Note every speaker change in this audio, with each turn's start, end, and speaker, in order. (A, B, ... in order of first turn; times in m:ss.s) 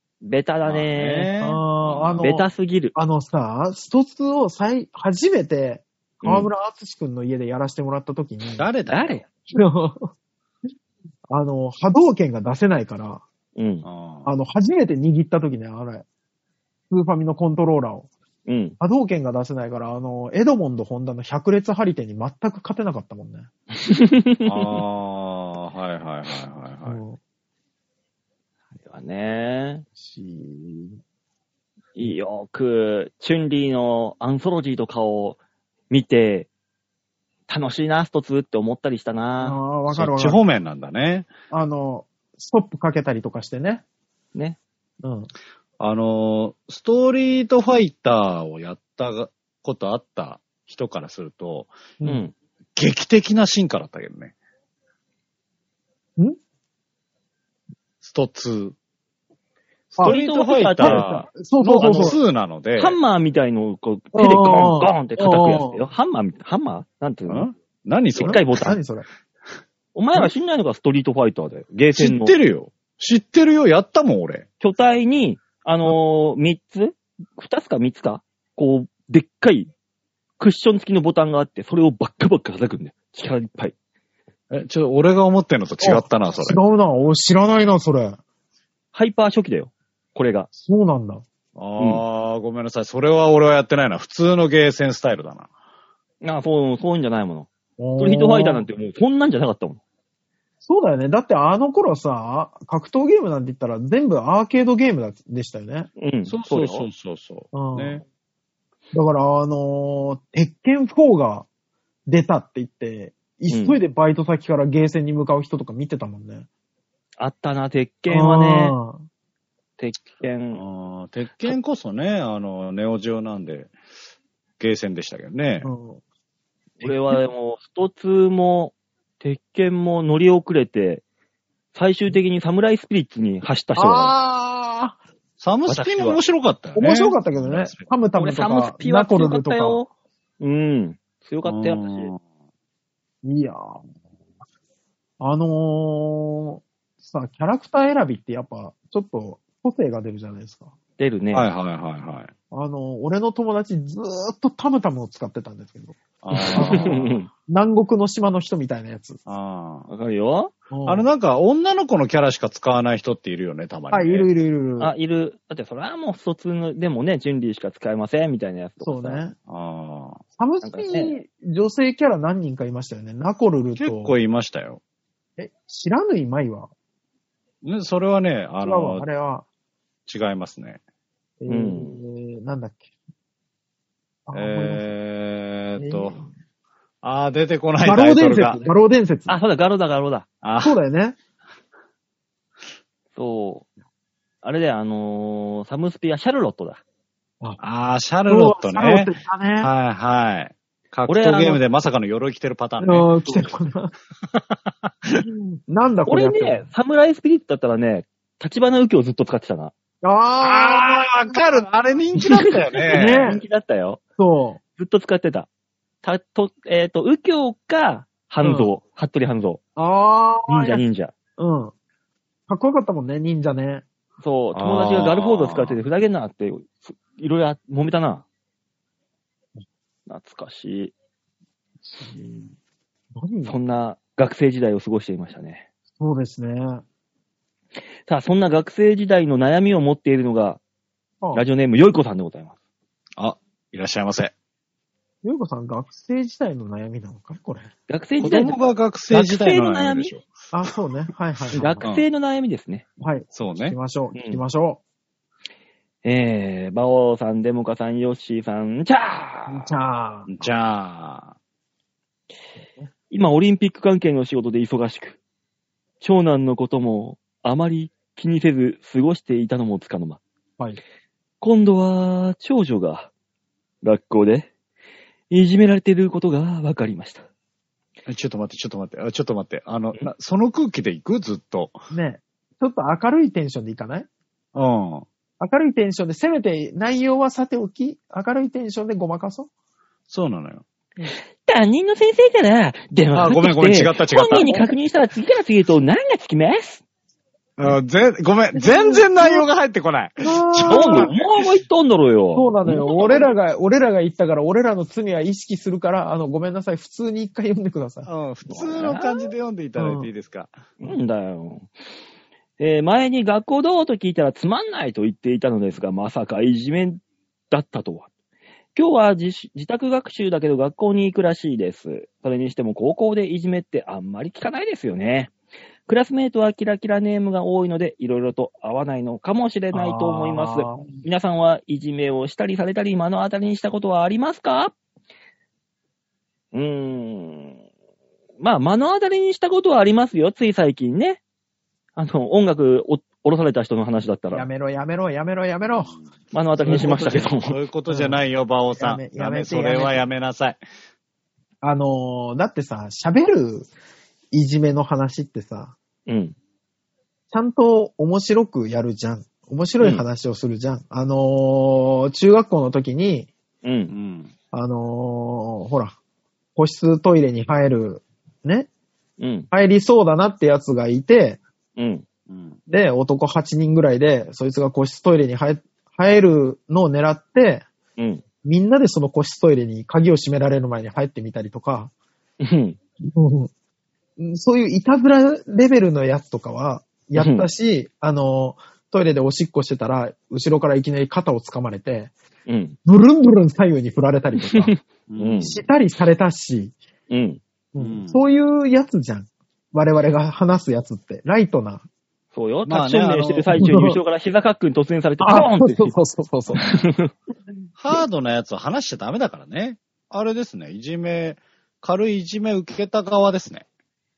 0:00.2-0:01.3 A
0:00.6-0:02.2 B
0:01.4-0:08.7 C
0:02.2-0:03.0 A
0:06.2-0:06.5 A
0:08.6-0:09.2 B
0:08.9-0:09.3 A
0:09.5-0:10.1 C
0:11.3-0:13.2 C
0:13.6-0:13.9 A
0:13.8-0:14.3 B
0:14.3-0:16.0 C
0:16.9-0:18.1 C
0:18.5-0:18.8 A
0:18.8-0:23.5 C
0:23.7-0:24.8 A
0:24.5-0:27.0 B
0:26.8-0:27.2 C
0:28.9-0:29.9 A
0:30.0-0:31.0 C
0:32.0-0:35.4 A
0:35.9-0:36.5 A
0:37.5-0:39.6 A
0:39.4-0:40.4 C
0:39.9-0:41.3 B
0:41.5-0:43.8 C
0:45.0-0:45.3 C
0:45.8-0:51.8 B
0:52.0-0:52.2 C
0:52.0-0:52.3 A
0:52.8-0:54.3 B
0:58.0-0:58.8 B
0:59.9-1:03.0 B
1:00.0-1:02.2 A
1:00.8-1:02.2 C
1:02.8-1:07.5 A
1:04.1-1:05.8 C
1:07.3-1:08.5 B
1:08.2-1:08.8 A
1:08.2-1:09.1 C
1:10.0-1:12.4 A
1:12.0-1:14.4 B
1:14.6-1:19.7 A
1:20.4-1:23.8 A
1:24.5-1:26.6 B
1:25.8-1:28.2 C
1:28.9-1:30.5 A
1:30.6-1:31.2 C
1:31.6-1:35.5 B
1:36.2-1:39.8 A
1:37.8-1:38.7 C
1:40.6-1:45.9 C
1:46.0-1:46.9 A
1:46.3-1:48.0 B
1:47.5-1:48.0 C
1:48.9-1:51.5 C
1:52.1-1:56.5 C
1:53.5-1:53.8 A
1:57.2-1:58.8 A
1:58.1-1:59.0 C
1:59.8-2:00.6 A
2:00.5-2:03.7 B
2:04.6-2:05.7 B
2:05.6-2:06.0 C
2:06.8-2:07.2 C
2:06.8-2:11.0 A
2:11.7-2:14.2 A
2:13.8-2:15.0 C
2:15.4-2:17.9 B
2:15.7-2:16.2 A
2:16.8-2:19.8 C
2:18.2-2:19.9 A
2:20.4-2:22.1 A
2:21.4-2:22.2 B
2:23.2-2:23.8 C
2:25.2-2:30.7 C
2:31.0-2:31.5 A
2:31.3-2:32.3 B
2:32.5-2:36.0 C
2:36.2-2:37.1 B
2:36.4-2:37.3 A
2:36.6-2:39.2 C
2:39.3-2:39.9 B
2:39.9-2:40.5 A
2:40.7-2:41.1 C
2:40.9-2:44.3 B
2:43.9-2:44.9 C
2:44.8-2:49.2 A
2:48.8-2:49.4 C
2:49.5-2:50.2 B
2:50.4-2:54.1 C
2:50.6-2:51.2 A
2:53.8-2:54.8 B
2:55.4-2:56.7 C
2:57.6-2:59.0 B
2:58.6-2:59.5 C
3:00.1-3:00.8 B
3:01.4-3:02.8 C
3:01.5-3:02.0 A
3:04.3-3:04.9 C
3:04.3-3:06.2 B
3:05.8-3:06.3 C
3:07.0-3:08.7 B
3:07.8-3:09.4 C
3:09.3-3:10.3 A
3:10.4-3:10.8 B
3:10.6-3:11.2 C
3:13.2-3:13.7 A
3:14.4-3:16.8 A
3:17.6-3:23.2 B
3:18.3-3:19.7 C
3:21.1-3:21.6 A
3:22.8-3:23.9 C
3:25.4-3:26.7 C
3:26.1-3:29.7 A
3:30.0-3:31.4 C
3:30.4-3:33.3 B
3:32.2-3:34.0 A
3:32.9-3:33.4 C
3:34.2-3:34.6 C
3:34.8-3:35.5 A
3:36.0-3:39.6 A
3:38.4-3:38.7 C
3:39.8-3:40.8 C
3:40.5-3:41.1 A
3:41.4-3:41.7 C
3:42.5-3:43.8 C
3:44.2-3:48.2 A
3:44.5-3:45.8 B
3:50.1-3:50.9 A
3:53.1-3:53.6 C
3:53.4-3:55.6 A
3:56.0-3:56.8 C
3:58.1-4:00.6 A
4:01.3-4:02.6 A
4:03.2-4:04.3 B
4:05.2-4:07.7 C
4:07.9-4:10.2 A
4:08.2-4:10.7 B
4:10.5-4:11.9 C
4:11.5-4:12.0 B
4:11.6-4:12.8 A
4:13.0-4:14.8 C
4:13.3-4:13.8 B
4:14.1-4:14.4 A
4:16.0-4:19.7 A
4:19.5-4:20.5 C
4:20.3-4:21.3 B
4:23.1-4:25.2 A
4:26.0-4:30.2 A
4:31.4-4:33.1 A
4:33.8-4:34.5 A
4:35.3-4:37.3 A
4:38.1-4:41.8 B
4:41.9-4:44.1 C
4:44.5-4:45.1 B
4:45.4-4:49.5 C
4:50.1-4:50.6 B
4:51.4-4:56.8 A
4:53.2-4:54.6 B
4:54.1-4:54.8 C
4:57.6-5:01.4 B
4:58.6-4:59.4 C
5:00.2-5:01.1 C
5:00.7-5:02.9 A
5:02.4-5:08.1 C
5:02.9-5:03.2 B
5:08.0-5:10.7 B
5:08.5-5:09.3 A
5:09.8-5:10.1 C
5:10.8-5:11.7 A
5:12.6-5:18.1 A
5:18.8-5:25.3 A
5:25.9-5:34.7 A
5:29.7-5:31.0 C
5:36.5-5:37.6 A
5:38.4-5:41.2 A
5:42.0-5:44.5 A
5:44.3-5:45.9 C
5:45.8-5:46.0 B
5:46.3-5:47.6 A
5:46.6-5:47.1 C
5:46.7-5:50.6 B
5:47.9-5:48.2 C
5:48.7-5:50.0 C
5:51.6-5:53.7 C
5:54.3-5:55.8 C
5:56.1-5:56.4 A
5:57.3-6:03.3 C
6:03.6-6:03.9 A
6:03.9-6:04.3 B
6:04.5-6:06.0 C
6:06.6-6:08.7 C
6:09.2-6:09.5 A
6:09.5-6:11.4 C
6:11.8-6:12.0 A
6:12.3-6:12.6 B
6:12.7-6:17.6 C
6:18.0-6:18.2 A
6:18.4-6:21.9 C
6:22.4-6:22.8 A
6:23.0-6:23.5 C
6:24.2-6:32.1 C
6:27.2-6:27.5 A
6:32.5-6:32.8 A
6:32.9-6:34.8 C
6:34.5-6:35.6 A
6:35.1-6:35.5 B
6:35.4-6:36.8 C
6:37.1-6:37.4 A
6:37.8-6:41.8 C
6:37.8-6:38.2 B
6:42.3-6:46.0 A
6:42.7-6:43.5 B
6:43.6-6:44.0 C
6:45.2-6:46.6 C
6:46.6-6:47.1 A
6:47.8-6:53.6 B